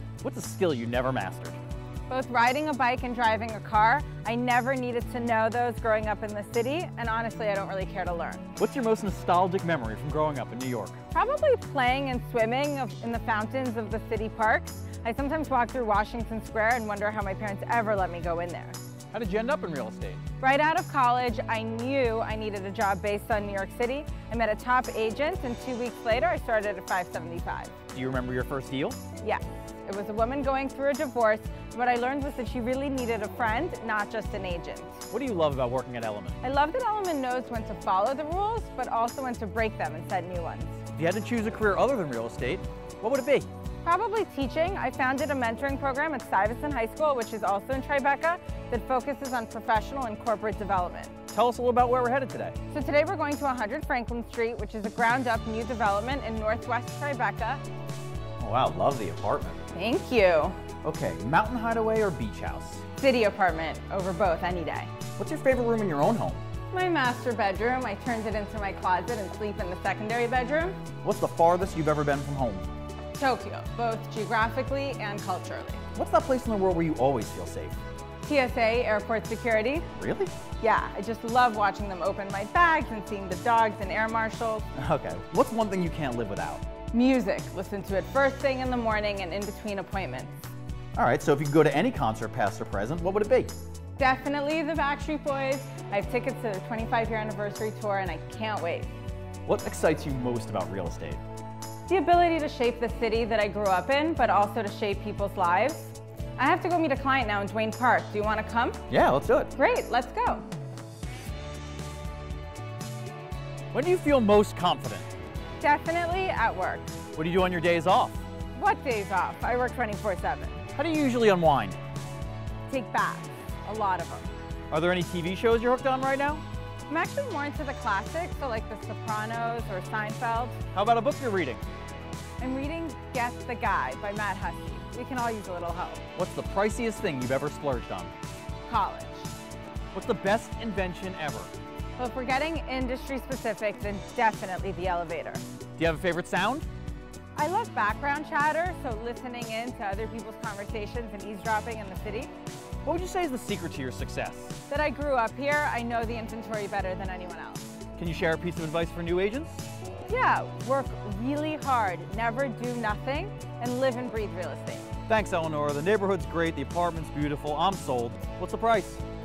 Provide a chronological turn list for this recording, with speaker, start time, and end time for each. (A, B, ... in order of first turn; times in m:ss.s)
0:00.2-0:01.6 A
0:02.1-0:08.5 B
0:08.6-0:11.0 A
0:11.1-0:18.8 B
0:19.1-0:20.2 A
0:20.4-0:27.8 B
0:27.9-0:29.0 A
0:29.2-0:35.0 B
0:35.1-0:36.4 A
0:36.4-0:40.8 B
0:40.9-0:43.5 A
0:43.8-0:51.1 B
0:51.3-0:52.6 A
0:52.7-0:57.6 B
0:58.4-0:59.6 A
0:59.7-1:00.6 B
1:00.8-1:02.8 A
1:03.0-1:04.9 B
1:05.2-1:06.4 A
1:06.7-1:10.8 B
1:11.0-1:12.7 A
1:13.1-1:15.8 B
1:15.9-1:17.8 A
1:18.2-1:19.9 B
1:20.0-1:20.3 A
1:20.6-1:24.6 B
1:24.7-1:26.6 A
1:26.9-1:30.5 B
1:30.9-1:33.5 A
1:34.0-1:38.9 B
1:39.4-1:41.2 A
1:41.9-1:48.8 B
1:48.9-1:49.5 A
1:49.6-1:50.4 B
1:53.7-1:55.1 A
1:55.6-1:56.9 B
1:57.1-1:58.2 A
1:58.5-2:00.6 B
2:00.7-2:01.8 A
2:02.7-2:04.3 B
2:04.7-2:06.4 A
2:06.9-2:10.6 B
2:10.7-2:11.6 A
2:12.4-2:16.0 B
2:16.2-2:18.1 A
2:18.6-2:19.3 B
2:19.9-2:21.5 A
2:22.0-2:25.4 B
2:25.8-2:26.7 A
2:27.4-2:32.3 B
2:32.8-2:34.6 A
2:34.7-2:37.7 B
2:38.0-2:39.6 A
2:40.1-2:44.9 B
2:45.1-2:49.0 A